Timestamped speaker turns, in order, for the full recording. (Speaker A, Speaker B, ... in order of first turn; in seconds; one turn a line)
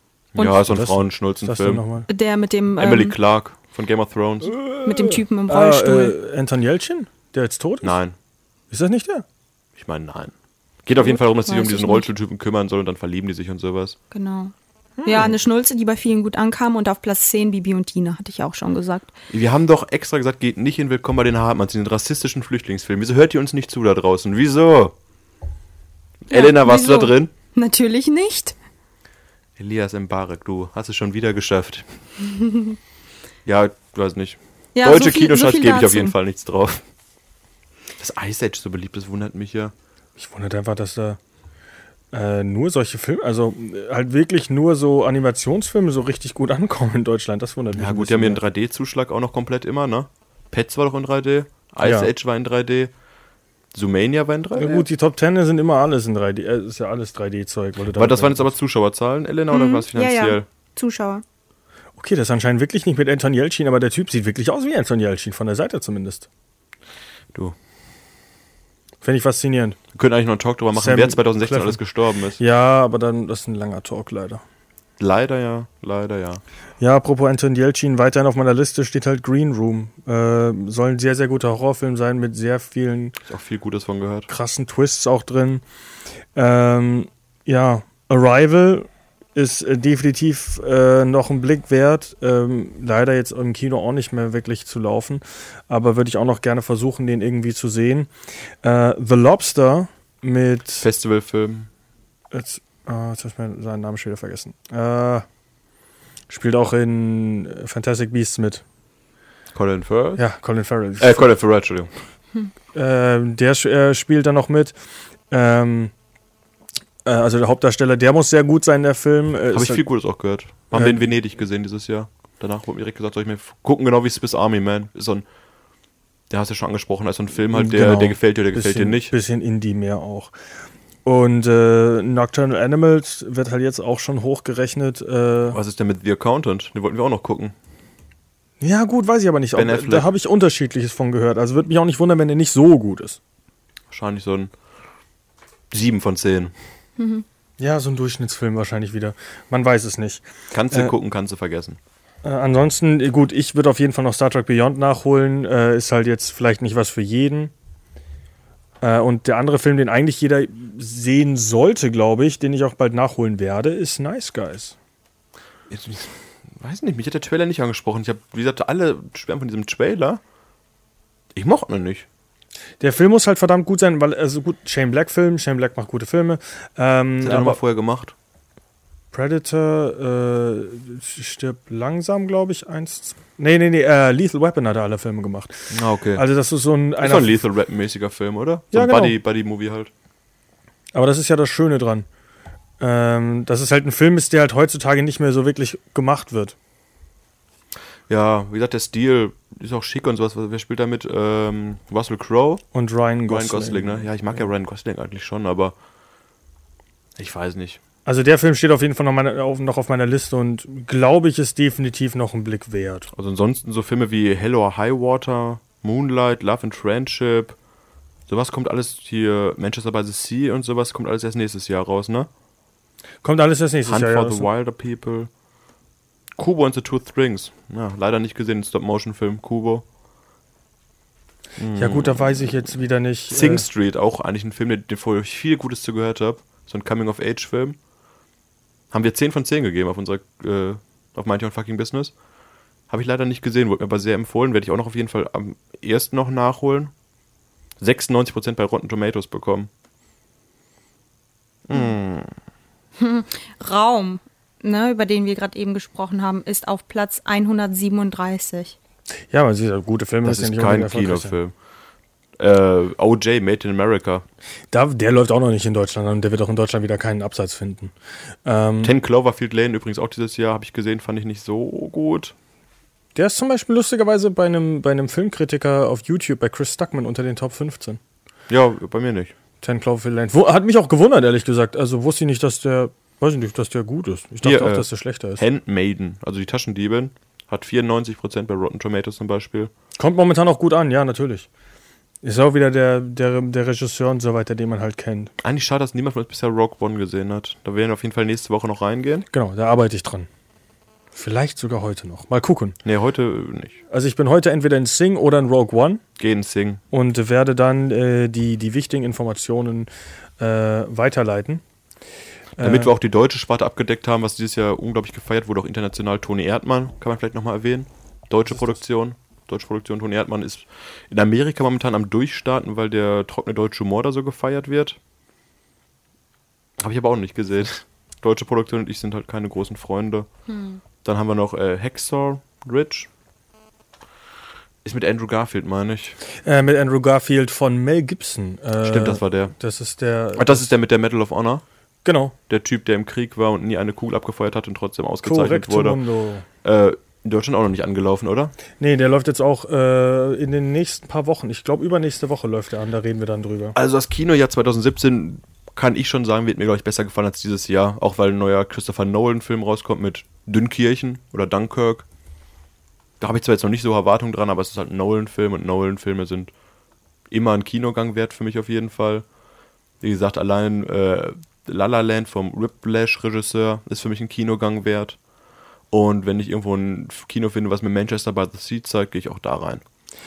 Speaker A: 0.3-1.8
Speaker B: 0.4-0.7
Speaker C: 0.7-2.1
Speaker B: 2.1-3.1
Speaker A: 2.8-4.5
Speaker C: 4.4-8.0
Speaker B: 4.8-6.2
Speaker A: 7.8-8.2
Speaker C: 8.7-9.2
Speaker A: 9.8-10.3
Speaker A: 10.8-14.0
Speaker B: 11.5-12.1
Speaker B: 14.1-14.5
Speaker C: 15.0-15.3
Speaker B: 15.1-19.1
Speaker A: 19.3-24.9
Speaker A: 26.2-27.3
Speaker B: 26.3-28.6
Speaker A: 29.6-31.9
Speaker B: 32.4-32.8
Speaker A: 33.5-36.8
Speaker B: 34.8-36.1
Speaker A: 38.0-39.7
Speaker C: 40.2-41.2
Speaker C: 42.1-48.4
Speaker A: 47.8-52.9
Speaker C: 51.8-52.1
Speaker A: 53.7-54.8
Speaker C: 54.6-58.5
Speaker A: 57.9-60.5
Speaker B: 59.5-61.2
Speaker C: 62.0-66.3
Speaker C: 69.0-69.8
Speaker A: 69.9-72.4
Speaker C: 70.7-71.8
Speaker C: 72.4-74.4
Speaker A: 75.0-76.4
Speaker C: 76.8-83.2
Speaker A: 83.2-84.3
Speaker C: 84.3-85.6
Speaker C: 86.3-98.1
Speaker C: 98.6-100.9
Speaker A: 100.8-101.7
Speaker C: 102.3-105.2
Speaker C: 106.3-108.6
Speaker A: 109.5-110.2
Speaker C: 110.2-111.3
Speaker A: 111.0-111.9
Speaker C: 112.7-114.8
Speaker C: 115.3-115.9
Speaker C: 117.0-119.9
Speaker A: 119.5-125.2
Speaker C: 120.7-121.0
Speaker A: 126.3-129.1
Speaker C: 127.5-130.3
Speaker C: 131.1-135.6
Speaker A: 135.5-137.6
Speaker C: 138.6-143.2
Speaker A: 139.5-140.1
Speaker A: 143.9-144.5
Speaker A: 145.7-146.5
Speaker B: 147.0-147.2
Speaker C: 147.6-150.9
Speaker A: 150.5-151.8
Speaker C: 152.2-157.5
Speaker C: 158.8-164.8
Speaker A: 165.7-170.2
Speaker A: 171.3-172.1
Speaker C: 172.8-177.6
Speaker A: 177.2-178.1
Speaker C: 179.1-187.4
Speaker A: 185.7-186.2
Speaker A: 187.0-189.9
Speaker C: 188.7-189.2
Speaker C: 190.9-192.1
Speaker C: 192.8-196.6
Speaker A: 198.1-202.6
Speaker C: 202.7-204.1
Speaker A: 203.3-205.8
Speaker A: 207.2-207.8
Speaker C: 208.1-213.1
Speaker A: 213.1-217.6
Speaker A: 218.3-222.3
Speaker C: 223.2-224.5
Speaker A: 223.9-225.3
Speaker A: 226.4-229.8
Speaker A: 231.6-237.8
Speaker C: 231.8-233.7
Speaker A: 238.9-242.2
Speaker A: 242.9-246.9
Speaker A: 247.8-249.7
Speaker A: 251.7-252.3
Speaker B: 253.0-258.8
Speaker C: 259.3-261.4
Speaker A: 260.2-261.5
Speaker A: 262.4-264.2
Speaker C: 264.7-267.9
Speaker C: 268.4-268.9
Speaker A: 268.8-272.4
Speaker C: 273.1-278.0
Speaker A: 278.5-279.3
Speaker C: 279.6-285.4
Speaker A: 284.4-289.7
Speaker C: 290.0-291.5
Speaker C: 292.2-295.3
Speaker A: 295.4-299.3
Speaker C: 299.3-300.3
Speaker C: 301.1-302.8
Speaker A: 302.9-303.8
Speaker C: 303.9-306.0
Speaker A: 306.2-306.8
Speaker C: 306.9-309.9
Speaker C: 310.4-311.6
Speaker C: 312.6-312.9
Speaker A: 312.6-325.0
Speaker A: 326.8-330.3
Speaker B: 330.5-330.8
Speaker A: 331.0-333.1
Speaker A: 334.8-336.2
Speaker C: 336.4-340.7
Speaker A: 338.8-339.5
Speaker A: 340.4-341.6
Speaker C: 342.1-342.4
Speaker A: 342.5-346.0
Speaker C: 345.2-346.5
Speaker A: 346.6-348.6
Speaker C: 348.8-353.8
Speaker A: 353.8-362.1
Speaker A: 363.2-366.5
Speaker A: 367.3-369.3
Speaker A: 370.0-375.2
Speaker A: 375.9-379.8